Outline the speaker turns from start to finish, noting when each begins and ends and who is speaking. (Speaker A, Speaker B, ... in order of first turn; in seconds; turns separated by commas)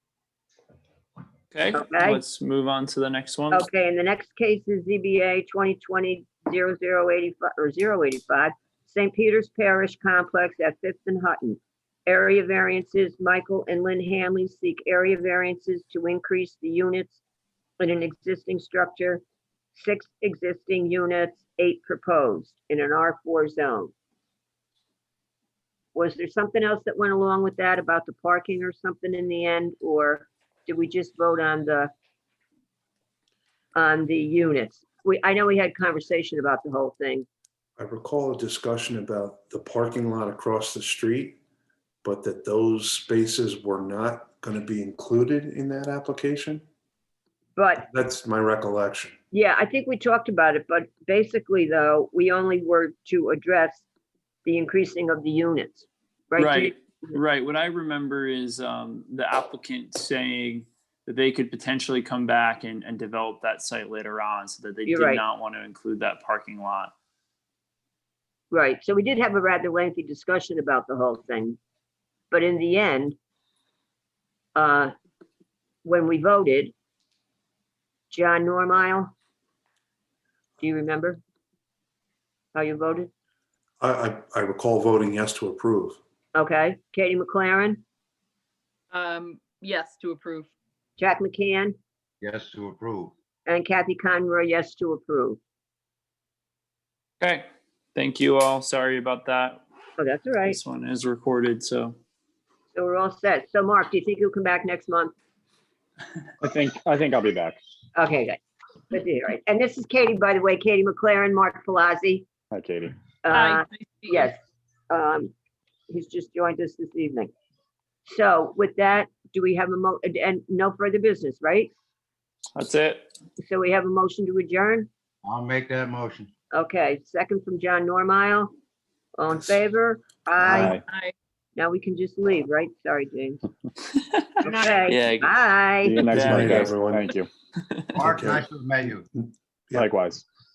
Speaker A: 1.5-3.7, Speaker B: 1.7-2.2, Speaker B: 3.5-17.2, Speaker B: 17.8-19.2, Speaker B: 19.8-23.9, Speaker B: 25.9-31.9, Speaker B: 33.8-37.3, Speaker C: 37.8-41.4, Speaker C: 42.0-46.6, Speaker B: 47.6-47.9, Speaker C: 47.9-49.2, Speaker B: 49.3-53.9, Speaker B: 54.5-57.2, Speaker A: 56.4-66.9, Speaker B: 64.9-65.2, Speaker B: 68.5-71.6, Speaker B: 72.3-73.2, Speaker B: 74.5-74.9, Speaker B: 75.8-76.7, Speaker B: 78.1-79.1, Speaker B: 80.6-81.2, Speaker B: 82.5-83.1, Speaker C: 83.8-86.0, Speaker B: 86.3-87.8, Speaker D: 88.9-90.5, Speaker B: 91.0-91.8, Speaker E: 92.2-93.1, Speaker B: 93.5-95.4, Speaker A: 97.2-99.6, Speaker B: 100.0-100.6, Speaker A: 100.5-102.0, Speaker B: 102.7-105.1, Speaker F: 106.4-107.6, Speaker B: 108.0-108.4, Speaker B: 108.9-112.3, Speaker F: 112.5-112.9, Speaker B: 113.2-114.4, Speaker D: 113.3-114.3, Speaker B: 114.9-115.3, Speaker B: 115.9-117.3, Speaker B: 118.1-121.7, Speaker A: 122.5-123.1, Speaker B: 123.4-124.9, Speaker E: 125.2-126.3, Speaker B: 126.5-128.5, Speaker B: 129.2-130.8, Speaker F: 130.4-130.8, Speaker D: 130.9-131.1, Speaker B: 131.6-133.4, Speaker B: 134.4-136.0, Speaker A: 134.8-135.3, Speaker F: 135.8-137.3, Speaker A: 136.1-136.7, Speaker C: 136.1-137.1, Speaker E: 137.9-139.1, Speaker C: 138.0-139.9, Speaker F: 139.8-140.2